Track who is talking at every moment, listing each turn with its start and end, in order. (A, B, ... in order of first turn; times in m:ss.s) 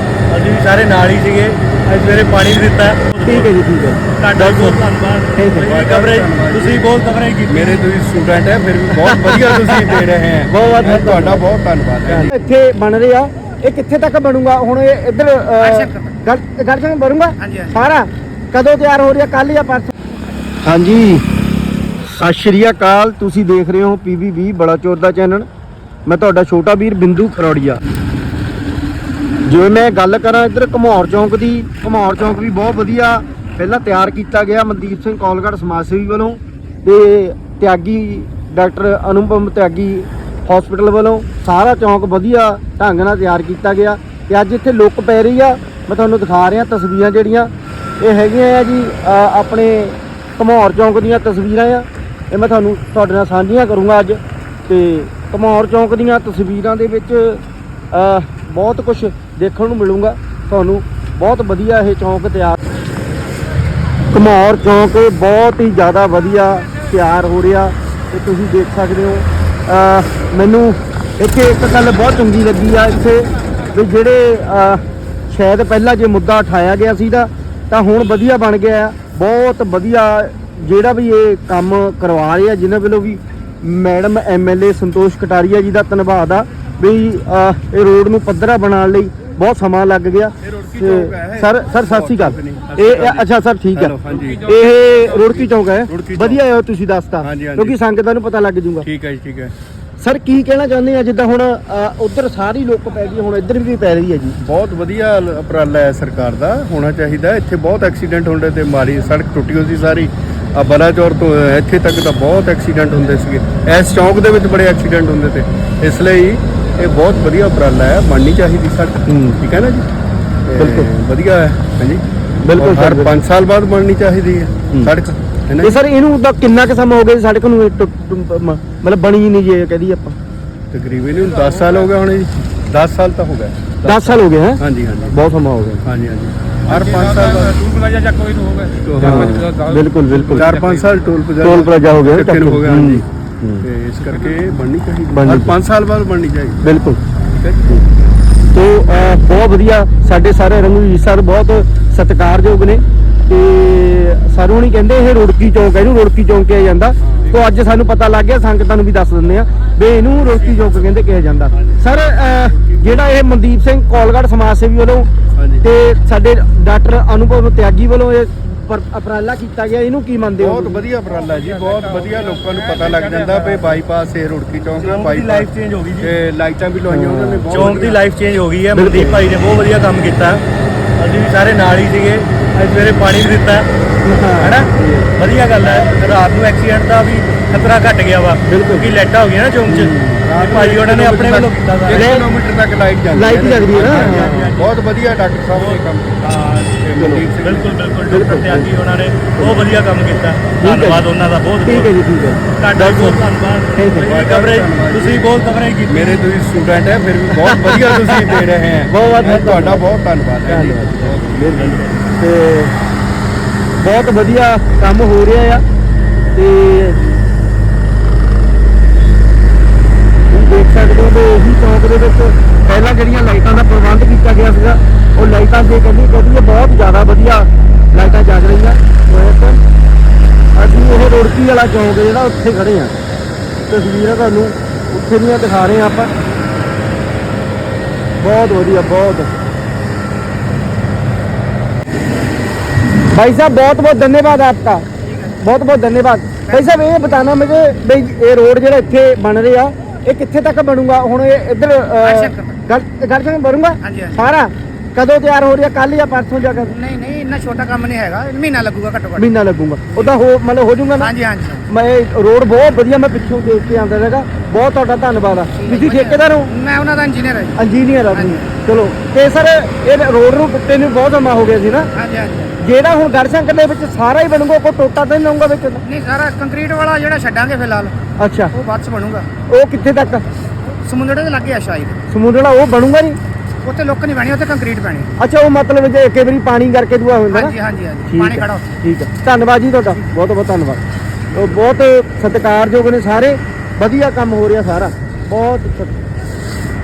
0:00.3-0:03.5 A
0:03.2-0:04.8 B
0:04.2-0:07.7 A
0:05.4-0:05.7 B
0:05.6-0:06.9 C
0:07.5-0:12.3 C
0:09.0-0:10.0 B
0:10.5-0:11.4 B
0:12.1-0:19.9 B
0:15.6-0:16.2 D
0:17.4-0:17.8 D
0:20.6-0:21.2 B
0:22.0-0:25.5 B
0:26.1-0:27.8 B
0:29.5-0:57.4 B
0:57.9-1:02.6 B
1:04.1-1:34.0 B
1:30.4-1:34.5 C
1:34.3-1:35.0 A
1:34.5-1:38.9 B
1:35.1-1:36.4 C
1:37.2-1:37.8 C
1:38.8-1:39.5 C
1:40.0-1:44.4 B
1:44.4-1:59.9 C
1:59.1-1:59.4 B
2:00.5-2:02.0 C
2:00.6-2:00.9 B
2:02.4-2:03.1 B
2:02.5-2:05.8 C
2:05.6-2:10.2 B
2:10.7-2:15.2 C
2:11.2-2:11.9 A
2:13.8-2:15.8 B
2:15.8-2:17.6 C
2:16.7-2:21.1 A
2:18.8-2:19.5 C
2:19.0-2:20.5 B
2:20.3-2:23.1 C
2:21.4-2:23.6 B
2:23.6-2:26.6 C
2:25.1-2:25.5 B
2:26.6-2:27.0 B
2:27.3-2:27.7 C
2:28.5-2:45.1 B
2:37.0-2:37.4 C
2:45.4-2:45.6 C
2:45.6-2:50.8 B
2:50.4-2:55.5 C
2:51.2-2:53.8 A
2:54.8-2:56.1 A
2:56.0-2:58.0 C
2:56.9-2:57.7 B
2:57.5-3:00.4 A
2:58.7-2:59.3 B
3:01.0-3:03.7 A
3:04.0-3:05.1 B
3:04.4-3:12.0 A
3:08.5-3:08.9 B
3:09.7-3:17.8 C
3:12.0-3:12.3 B
3:13.1-3:14.5 B
3:13.8-3:14.7 A
3:15.7-3:16.6 A
3:17.0-3:17.2 B
3:17.4-3:22.0 A
3:18.1-3:18.7 B
3:19.4-3:19.7 B
3:20.6-3:21.1 B
3:21.6-3:23.2 B
3:22.6-3:26.0 A
3:23.8-3:24.1 B
3:24.0-3:25.3 C
3:25.9-3:32.0 C
3:27.4-3:29.8 B
3:30.5-3:32.7 B
3:33.8-3:35.6 B
3:36.3-3:37.0 B
3:40.3-3:49.6 B
3:50.6-3:53.0 B
3:53.7-3:56.1 B
3:58.2-3:59.3 B
4:03.1-4:04.9 B
4:05.1-4:05.4 D
4:05.4-4:16.8 B
4:12.0-4:12.6 D
4:13.8-4:14.2 D
4:16.7-4:19.3 D
4:19.2-4:21.1 B
4:21.0-4:21.6 D
4:21.7-4:26.5 B
4:25.5-4:27.6 D
4:27.6-4:31.9 B
4:28.1-4:28.4 D
4:32.0-4:32.6 D
4:32.6-4:35.8 B
4:35.8-4:38.0 D
4:38.2-4:38.5 B
4:38.5-4:39.3 D
4:39.5-4:40.2 B
4:40.8-4:42.0 D
4:42.1-4:43.2 B
4:43.6-4:45.1 D
4:45.2-4:47.6 B
4:47.3-4:48.8 D
4:48.1-4:50.8 B
4:51.3-4:55.9 B